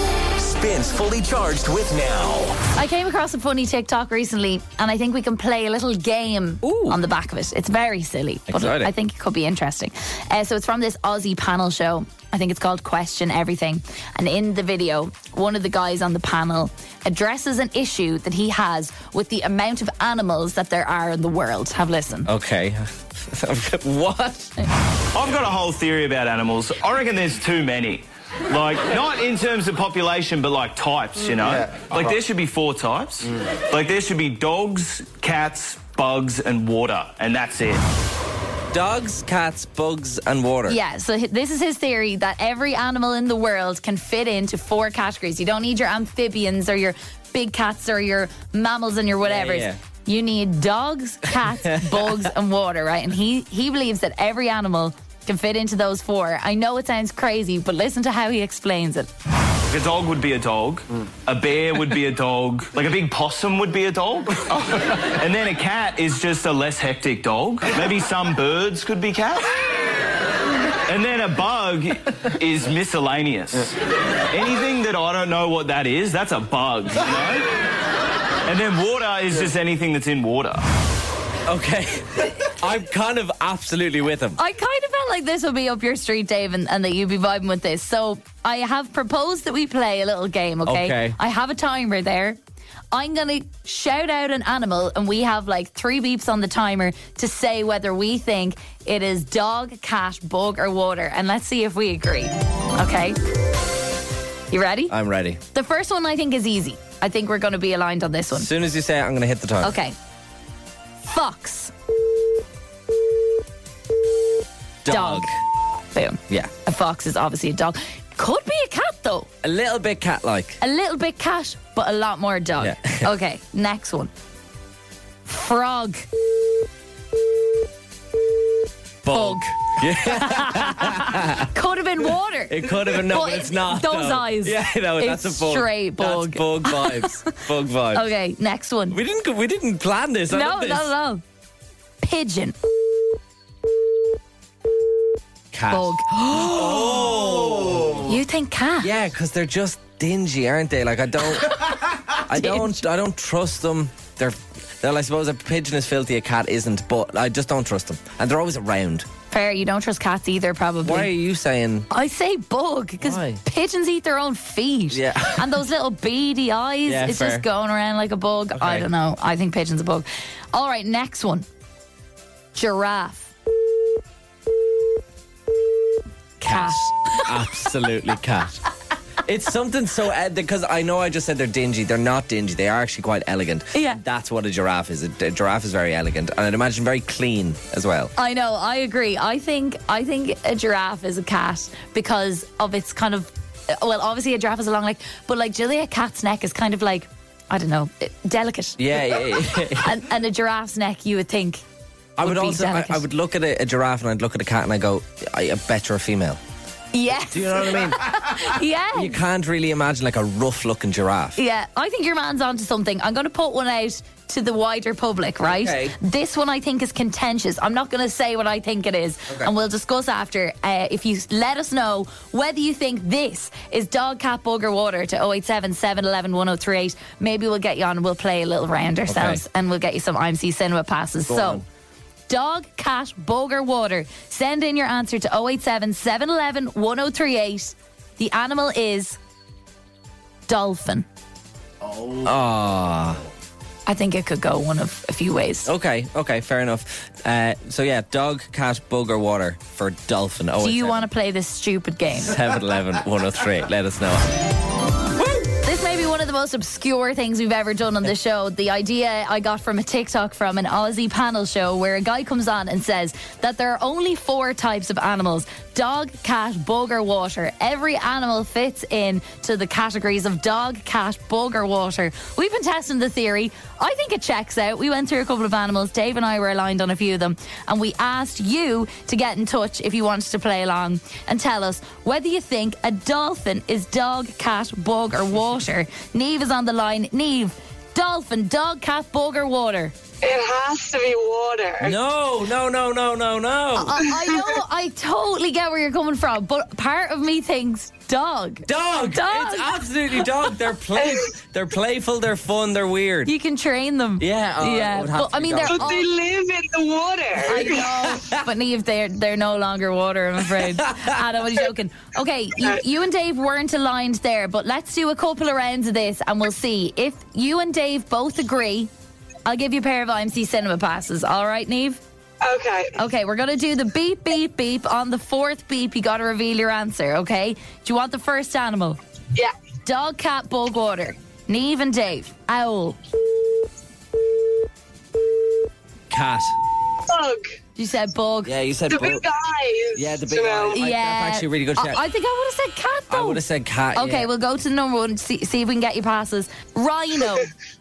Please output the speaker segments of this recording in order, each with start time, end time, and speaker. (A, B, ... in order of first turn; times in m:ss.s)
0:00.4-0:02.6 A
0:02.8-0:22.3 B
0:06.6-0:07.0 C
0:08.5-0:08.9 C
0:22.2-0:24.5 C
0:25.1-0:37.8 D
0:38.7-0:40.8 C
0:40.7-0:59.1 B
0:49.2-0:49.8 C
0:51.4-0:52.3 C
0:59.7-1:09.5 D
1:10.9-1:13.8 D
1:14.3-1:17.5 D
1:18.5-1:20.6 D
1:21.5-1:24.4 C
1:24.4-1:32.4 B
1:30.6-1:31.2 C
1:32.9-1:43.2 B
1:44.5-1:44.9 B
1:44.9-1:45.4 C
1:45.5-1:48.5 B
1:48.3-1:49.8 C
1:49.6-1:50.0 B
1:51.0-1:51.7 B
1:54.8-1:55.3 C
1:54.9-1:55.3 B
1:55.9-1:59.3 B
1:59.4-2:00.6 C
2:00.6-2:04.1 B
2:02.6-2:03.1 C
2:05.2-2:06.1 B
2:09.0-2:11.5 C
2:09.1-2:09.5 B
2:10.0-2:17.2 B
2:12.5-2:18.1 C
2:17.9-2:19.0 B
2:18.9-2:20.9 C
2:20.3-2:21.2 B
2:22.0-2:22.6 B
2:25.5-2:28.1 C
2:25.7-2:27.3 B
2:27.9-2:28.9 B
2:28.8-2:39.1 C
2:32.3-2:32.8 B
2:39.3-2:41.1 B
2:40.8-2:41.9 C
2:41.9-2:51.4 B
2:43.0-2:43.4 C
2:44.9-2:45.6 C
2:46.9-2:47.4 C
2:48.6-2:48.9 C
2:52.6-2:53.3 B
2:56.4-2:57.5 B
2:56.4-2:58.6 C
2:59.2-3:08.1 C
3:03.7-3:04.0 B
3:08.2-3:21.6 B
3:18.8-3:20.0 C
3:22.2-3:26.4 C
3:22.2-3:23.0 B
3:26.9-3:29.2 B
3:27.3-3:28.2 C
3:28.9-3:31.4 C
3:31.4-3:51.6 B
3:35.4-3:35.9 C
3:49.1-3:49.4 C
3:51.3-3:51.6 C
3:52.3-3:59.2 B
4:00.5-4:01.1 B
4:02.2-4:03.2 C
4:03.9-4:05.7 B
4:05.6-4:11.1 C
4:10.6-4:12.4 B
4:12.1-4:14.3 C
4:15.2-4:49.9 B
4:50.2-4:51.9 E
4:51.8-4:54.0 C
4:53.8-4:59.7 B
4:54.2-4:54.5 E
4:58.6-5:03.3 C
5:01.0-5:01.2 E
5:03.3-5:06.1 B
5:04.2-5:05.9 C
5:05.7-5:07.8 E
5:07.4-5:18.9 B
5:07.6-5:08.4 C
5:10.6-5:11.2 C
5:19.4-5:22.0 B
5:22.4-5:22.9 E
5:23.0-5:29.0 B
5:29.8-5:33.0 B
5:36.1-5:36.6 C
5:37.1-5:37.5 E
5:37.8-5:38.5 B
5:38.4-5:39.2 C
5:38.9-5:40.8 E
5:39.9-5:42.1 C
5:40.7-5:43.4 B
5:43.1-5:44.3 C
5:43.9-5:47.5 B